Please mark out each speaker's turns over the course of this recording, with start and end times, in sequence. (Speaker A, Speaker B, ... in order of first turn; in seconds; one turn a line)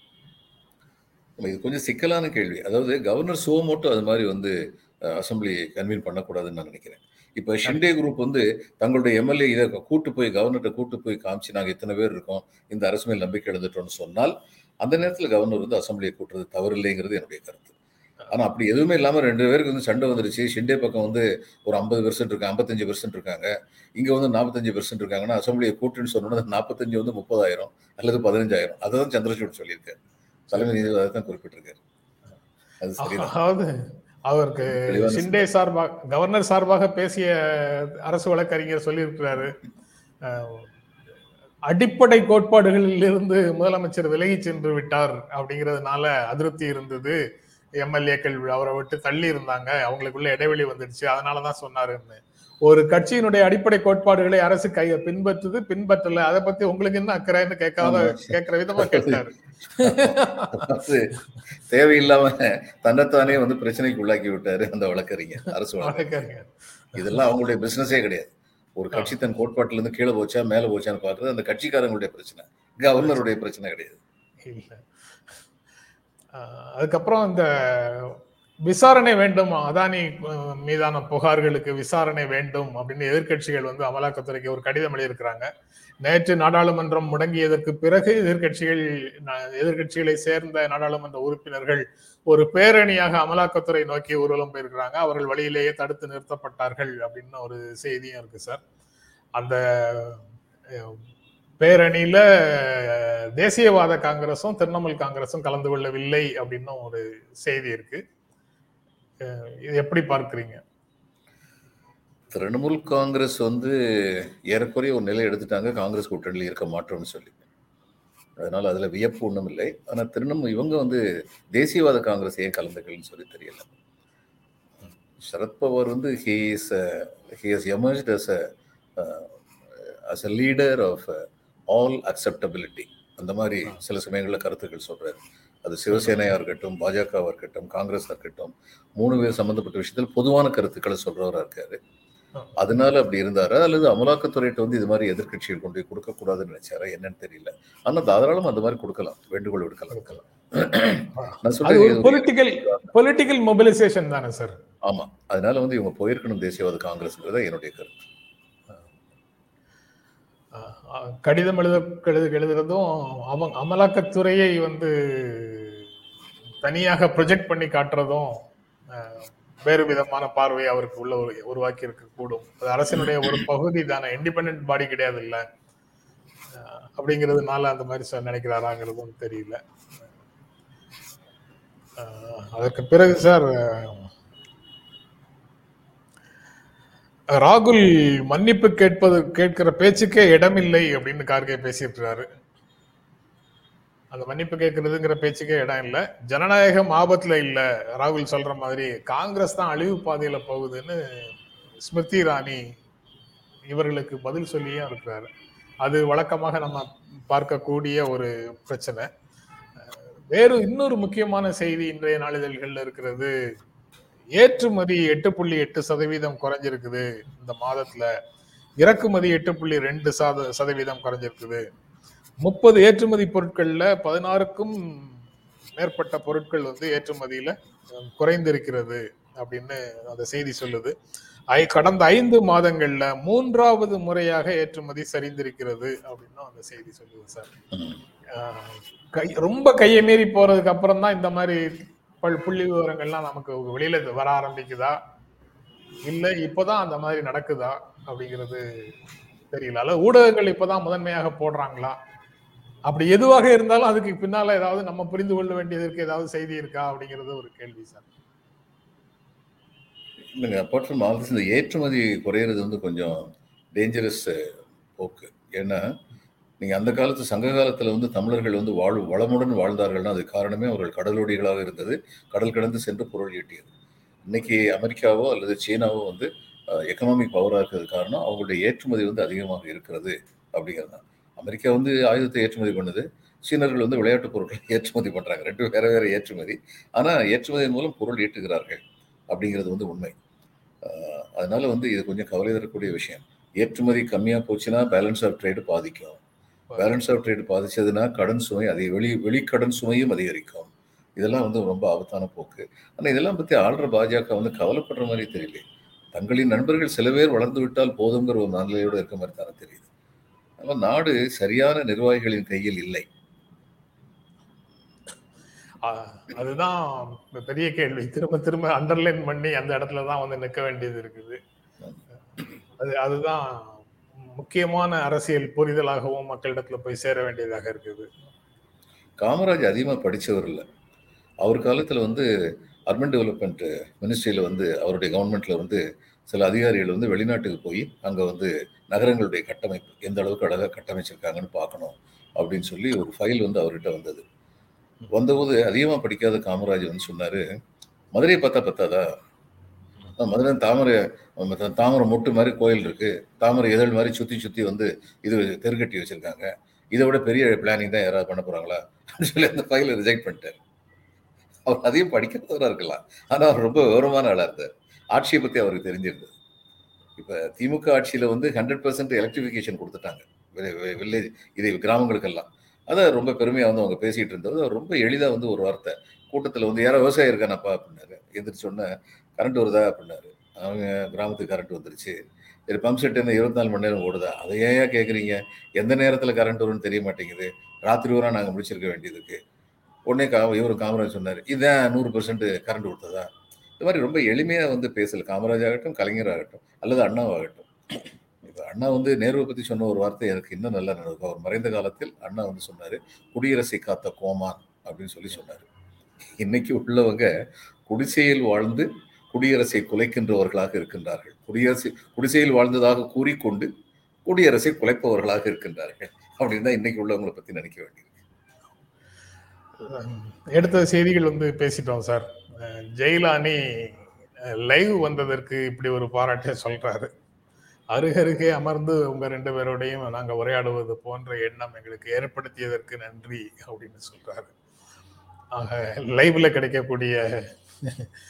Speaker A: 1.4-17.8
Speaker A: 18.3-31.8
Speaker B: 30.5-30.8
Speaker A: 32.8-33.3
Speaker B: 33.0-39.5
Speaker A: 34.7-35.5
Speaker B: 40.2-40.7
Speaker B: 41.7-47.2
Speaker B: 47.8-60.7
Speaker A: 57.8-59.2
Speaker A: 59.8-61.1
Speaker A: 61.7-66.1
Speaker B: 65.8-67.0
Speaker A: 67.0-74.0
Speaker B: 74.5-74.8
Speaker B: 76.3-85.5
Speaker B: 86.0-98.6
Speaker B: 99.4-101.0
Speaker B: 101.6-108.0
Speaker B: 109.2-110.6
Speaker A: 112.3-117.4
Speaker A: 118.4-123.7
Speaker A: 125.2-128.4
Speaker A: 129.0-141.8
Speaker A: 142.6-152.9
Speaker B: 149.9-150.2
Speaker B: 151.2-154.6
Speaker A: 154.9-158.0
Speaker B: 160.6-165.8
Speaker B: 166.6-168.4
Speaker B: 168.9-175.4
Speaker A: 173.0-173.4
Speaker B: 176.6-179.6
Speaker B: 182.0-184.1
Speaker B: 187.4-192.2
Speaker B: 194.1-202.6
Speaker B: 203.7-205.3
Speaker B: 205.8-209.1
Speaker B: 210.3-213.3
Speaker B: 214.4-218.1
Speaker B: 218.8-221.7
Speaker B: 222.4-225.2
Speaker B: 225.8-230.9
Speaker B: 231.5-237.5
Speaker B: 238.3-245.0
Speaker B: 246.1-248.7
Speaker B: 249.5-251.9
Speaker B: 252.9-258.1
Speaker A: 260.3-264.4
Speaker A: 265.0-266.0
Speaker A: 266.6-273.7
Speaker A: 274.3-290.1
Speaker A: 290.8-296.2
Speaker A: 296.8-309.9
Speaker A: 310.6-313.1
Speaker B: 315.8-321.4
Speaker B: 322.8-323.8
Speaker B: 324.4-328.1
Speaker A: 329.2-330.6
Speaker A: 331.4-332.3
Speaker A: 332.9-344.2
Speaker A: 345.1-347.4
Speaker A: 348.1-349.1
Speaker A: 350.2-360.6
Speaker A: 361.6-366.3
Speaker A: 367.2-382.2
Speaker A: 382.7-389.4
Speaker A: 390.1-405.7
Speaker A: 406.2-407.3
Speaker A: 407.9-413.7
Speaker A: 414.2-418.1
Speaker B: 419.8-427.1
Speaker B: 427.9-434.5
Speaker B: 435.5-438.1